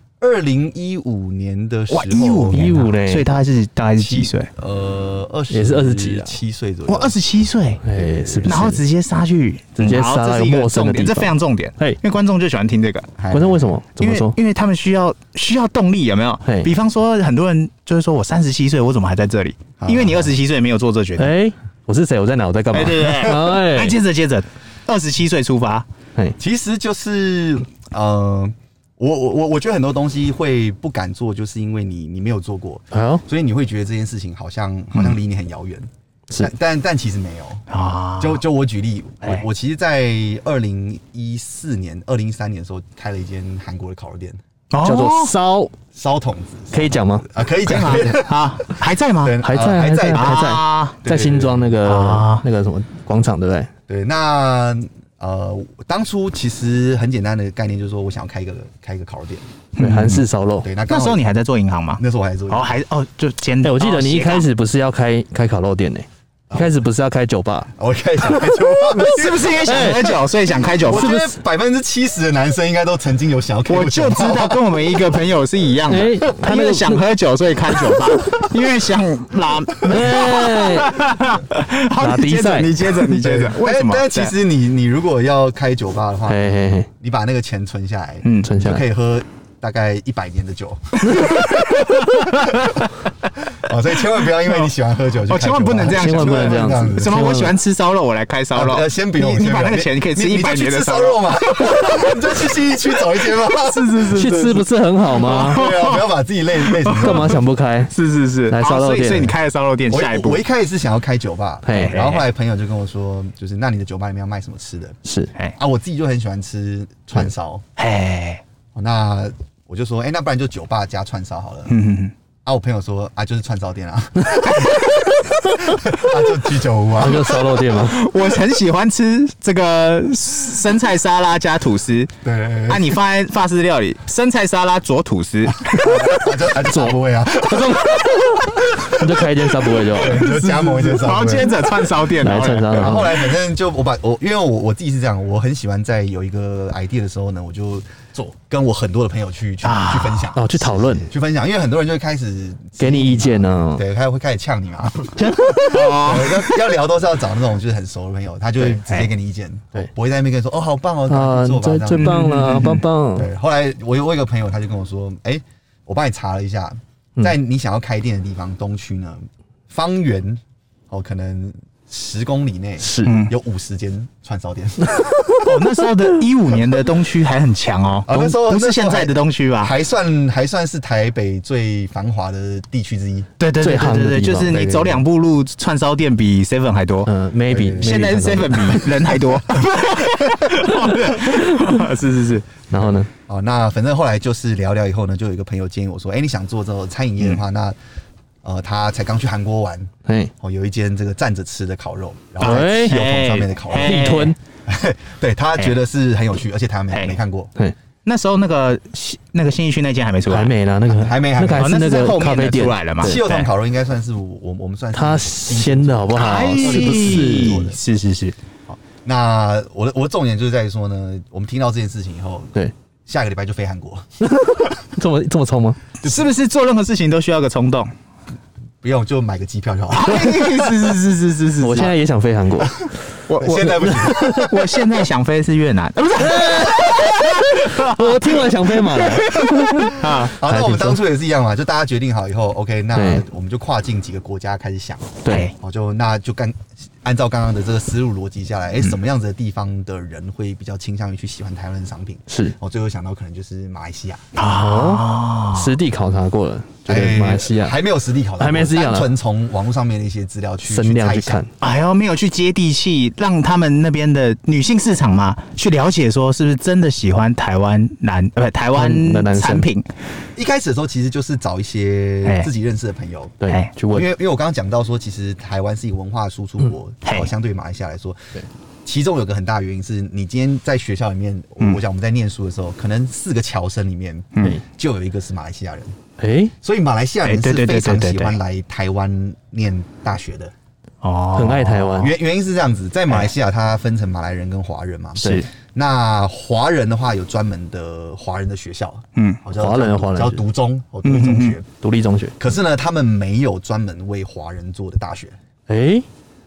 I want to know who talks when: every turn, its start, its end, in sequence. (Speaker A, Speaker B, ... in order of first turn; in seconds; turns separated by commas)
Speaker A: 0.2-2.8, Speaker B: 1.9-4.5, Speaker C: 2.5-3.3, Speaker A: 4.0-7.2, Speaker C: 5.5-6.4, Speaker B: 6.9-7.8, Speaker C: 7.8-8.8, Speaker A: 7.9-8.7, Speaker B: 8.4-13.1, Speaker C: 9.8-12.0, Speaker A: 13.2-13.7, Speaker C: 13.3-14.4, Speaker B: 14.0-21.3, Speaker C: 16.4-16.7, Speaker A: 19.8-20.3, Speaker C: 21.2-24.0, Speaker B: 22.7-25.9, Speaker A: 26.4-37.6, Speaker C: 32.9-33.2, Speaker B: 37.7-38.4, Speaker A: 38.2-44.4, Speaker B: 44.7-45.3, Speaker C: 44.8-45.7, Speaker A: 45.9-48.5, Speaker C: 46.7-47.3, Speaker B: 47.6-49.4, Speaker A: 49.2-51.7, Speaker C: 49.4-53.7, Speaker B: 50.1-51.0, Speaker B: 51.8-52.4, Speaker A: 53.9-59.5, Speaker B: 59.8-60.2, Speaker C: 59.8-60.7, Speaker A: 60.6-61.2, Speaker B: 60.9-64.5, Speaker A: 62.0-62.7, Speaker C: 63.6-67.7, Speaker A: 67.8-70.1, Speaker B: 68.9-71.2, Speaker C: 69.6-70.1, Speaker A: 70.8-74.8, Speaker C: 70.9-71.3, Speaker B: 73.7-84.3, Speaker C: 75.9-77.0, Speaker C: 79.8-81.0, Speaker C: 82.0-82.8, Speaker A: 83.0-92.8, Speaker C: 86.3-86.9, Speaker C: 88.4-88.8, Speaker B: 91.1-92.8, Speaker A: 93.5-97.2, Speaker B: 94.5-94.7, Speaker B: 95.3-102.2, Speaker C: 95.9-97.6, Speaker A: 98.5-104.6, Speaker B: 103.4-106.1, Speaker C: 104.1-105.6, Speaker A: 105.2-107.4, Speaker B: 106.6-107.4, Speaker C: 107.0-107.9, Speaker B: 107.9-110.4, Speaker C: 108.5-109.3, Speaker A: 109.9-115.0, Speaker C: 111.7-112.0, Speaker B: 111.7-112.3, Speaker C: 115.0-115.3, Speaker A: 115.6-117.6, Speaker B: 117.8-118.4, Speaker A: 118.8-121.8, Speaker B: 121.7-122.1, Speaker A: 122.5-125.0, Speaker B: 124.5-125.2, Speaker A: 125.6-127.5, Speaker C: 127.0-128.0, Speaker B: 127.7-132.1, Speaker A: 132.2-133.0, Speaker B: 132.7-136.1, Speaker A: 135.7-139.2, Speaker C: 136.6-138.1, Speaker C: 138.8-140.2, Speaker A: 139.9-142.0, Speaker B: 140.0-143.1, Speaker C: 142.2-143.1, Speaker A: 142.7-162.6, Speaker B: 149.6-150.3, Speaker C: 150.3-151.1, Speaker C: 152.8-153.8, Speaker B: 155.3-156.6, Speaker B: 158.6-159.1, Speaker C: 161.1-163.3, Speaker B: 162.0-162.8, Speaker A: 163.2-175.2, Speaker C: 172.8-173.2, Speaker B: 173.1-173.3, Speaker B: 175.4-179.7, Speaker A: 178.1-183.3, Speaker B: 183.4-187.1, Speaker C: 183.6-184.7, Speaker A: 184.5-185.0, Speaker C: 187.1-188.9, Speaker A: 187.5-188.8, Speaker B: 187.8-192.5, Speaker C: 191.2-191.5, Speaker C: 192.7-193.1, Speaker A: 192.8-197.8, Speaker A: 198.4-207.5, Speaker C: 200.1-200.3, Speaker C: 202.4-203.0, Speaker B: 202.4-204.3, Speaker C: 203.8-204.4, Speaker B: 206.9-207.2, Speaker B: 208.1-210.5, Speaker C: 210.3-213.3, Speaker A: 210.9-212.0, Speaker B: 211.6-213.5, Speaker A: 213.0-217.8, Speaker C: 214.9-217.7, Speaker B: 216.2-218.4, Speaker A: 218.7-222.6, Speaker A: 223.1-224.6, Speaker C: 224.2-225.8, Speaker B: 226.0-227.9, Speaker A: 228.8-230.9, Speaker B: 229.9-231.9, Speaker C: 231.6-232.8, Speaker A: 232.6-234.8, Speaker B: 233.3-240.4, Speaker C: 233.8-234.5, Speaker C: 236.2-241.0, Speaker A: 240.0-254.3, Speaker C: 242.9-243.2, Speaker C: 245.2-245.5, Speaker B: 245.3-245.5, Speaker C: 252.3-252.6, Speaker B: 254.3-255.7, Speaker C: 254.4-257.8, Speaker A: 256.9-261.4, Speaker C: 258.4-259.1, Speaker C: 260.7-261.5, Speaker B: 261.6-269.9, Speaker C: 268.7-269.7, Speaker A: 270.4-273.4, Speaker B: 272.2-272.5, Speaker C: 273.4-274.1, Speaker A: 273.9-278.3, Speaker B: 277.1-277.3, Speaker A: 278.9-285.9, Speaker B: 284.3-284.6, Speaker C: 286.2-286.5, Speaker A: 286.6-290.5, Speaker B: 287.2-288.4, Speaker B: 291.0-292.1, Speaker C: 291.3-292.1, Speaker A: 292.0-301.7, Speaker B: 295.2-295.5, Speaker C: 299.6-300.4, Speaker B: 301.1-301.6, Speaker C: 301.8-302.4, Speaker A: 302.4-305.4, Speaker C: 305.7-306.1